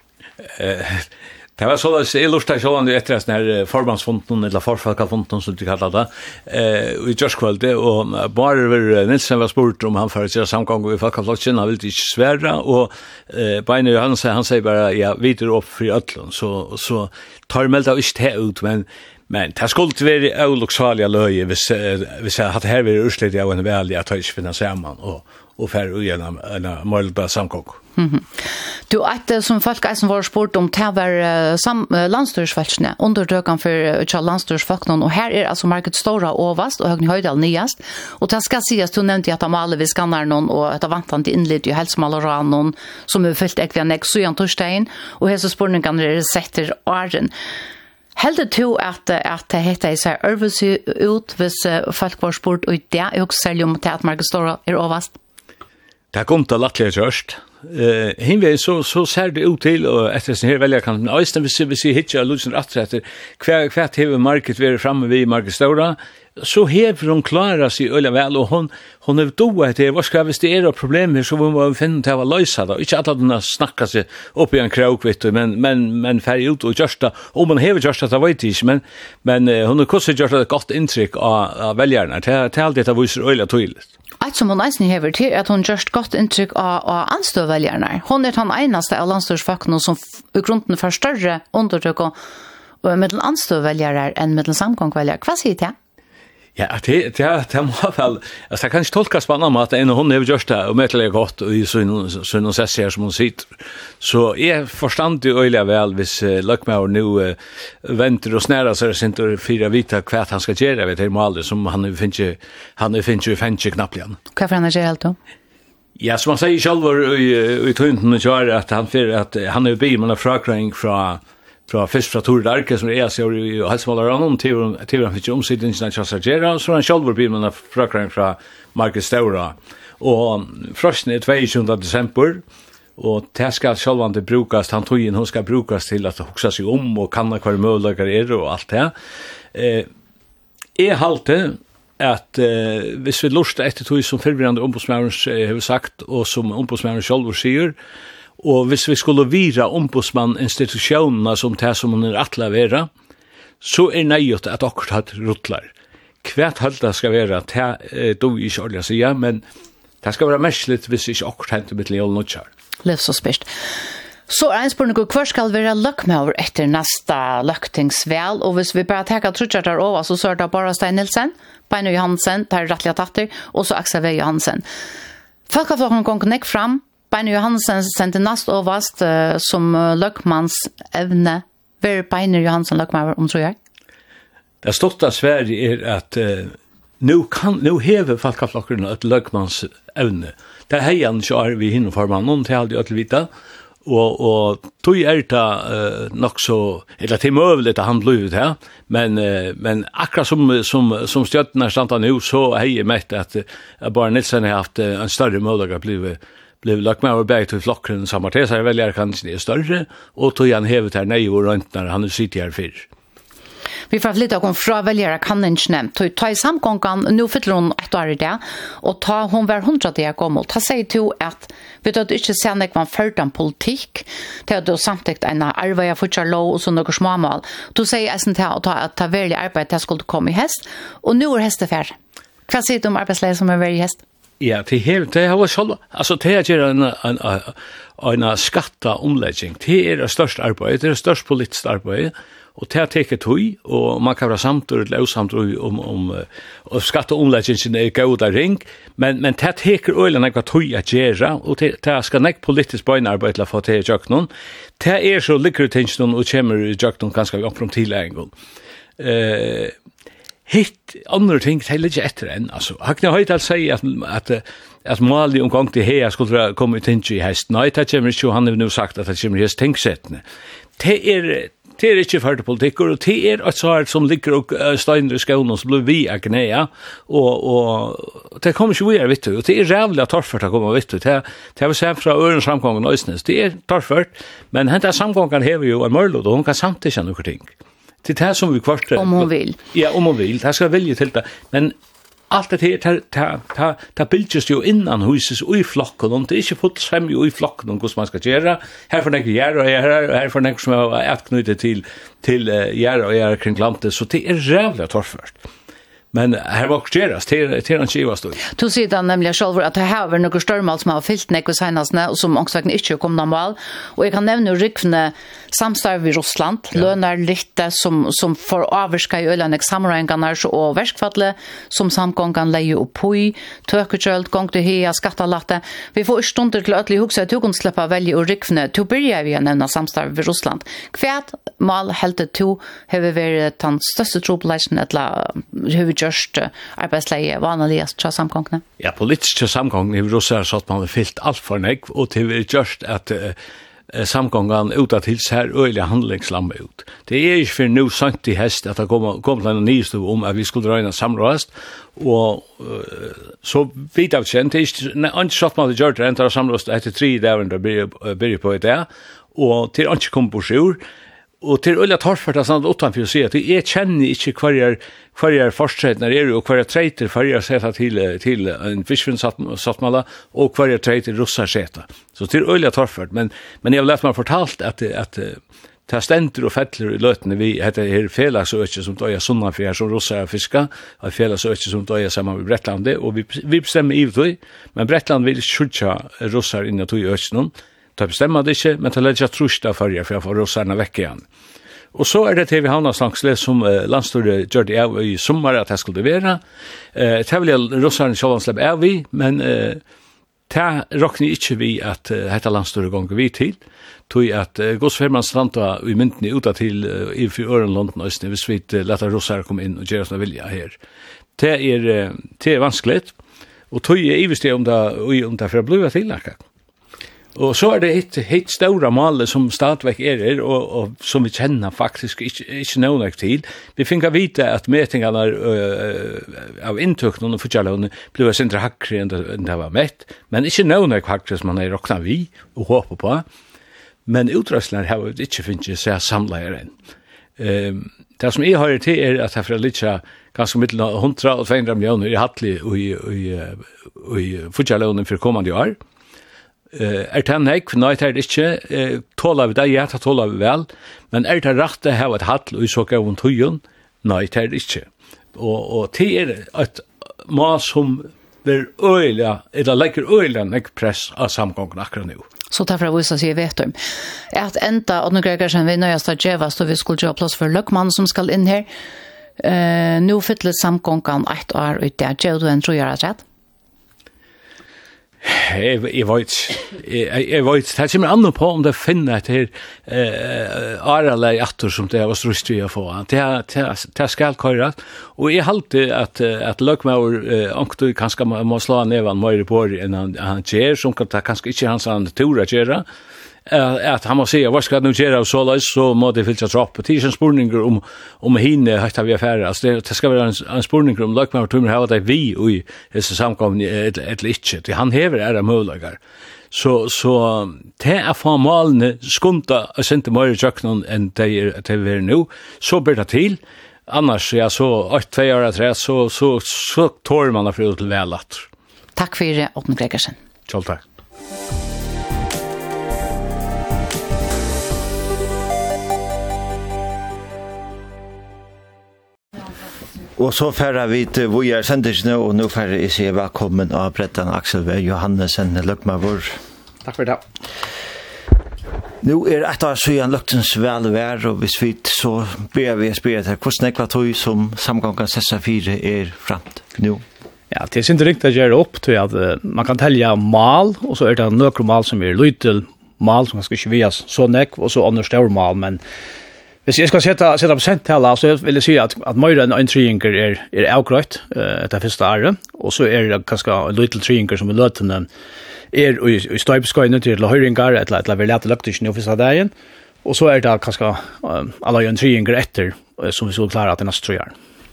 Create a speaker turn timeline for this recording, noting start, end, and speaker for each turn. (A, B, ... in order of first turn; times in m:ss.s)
0:00.5-0:27.8 A
0:28.0-0:47.3 B
0:48.2-0:55.2 B
0:56.1-1:23.9 A
1:24.2-1:32.2 B
1:32.8-1:35.7 B
1:36.6-1:54.2 A
1:54.3-1:55.2 B
1:56.0-2:12.4 A
2:13.0-2:18.9 A
2:19.5-2:19.9 A
2:20.8-2:27.8 A
2:28.4-2:32.9 A
2:33.6-2:35.7 A
2:36.2-2:39.4 A
2:40.0-2:42.5 A
2:42.8-2:43.5 B
2:44.3-2:54.6 B
2:55.5-3:03.6 B
3:04.6-3:13.3 A
3:13.8-3:32.9 A
3:33.9-3:52.0 B
3:52.5-3:54.0 B
3:54.4-4:18.3 A
4:19.0-4:19.7 A
4:20.5-4:30.2 A
4:30.8-4:47.5 A
4:48.0-4:51.8 A
4:49.0-4:49.6 B
4:52.3-5:05.4 A
5:06.1-5:08.4 A
5:08.5-5:38.6 B
5:38.8-5:43.4 A
5:43.9-6:00.8 A
6:01.4-6:31.2 A
6:31.9-6:36.4 A
6:36.9-6:39.8 A
6:40.5-6:50.8 A
6:51.4-6:53.1 A
6:53.7-6:56.4 A
6:57.4-7:13.2 A
7:14.1-7:16.7 A
7:17.4-7:25.8 A
7:26.7-7:42.3 A
7:42.5-7:43.8 B
7:44.3-7:48.7 B
7:49.4-7:53.2 B
7:55.2-8:12.8 A
8:13.5-8:26.0 A
8:26.5-8:38.5 A
8:39.0-8:40.2 B
8:40.5-8:40.8 A
8:50.2-8:56.4 C
8:56.8-8:57.2 D
8:59.0-9:07.0 C
9:07.5-9:15.8 D
9:16.7-9:25.1 D
9:25.7-9:29.5 D
9:30.0-9:34.3 D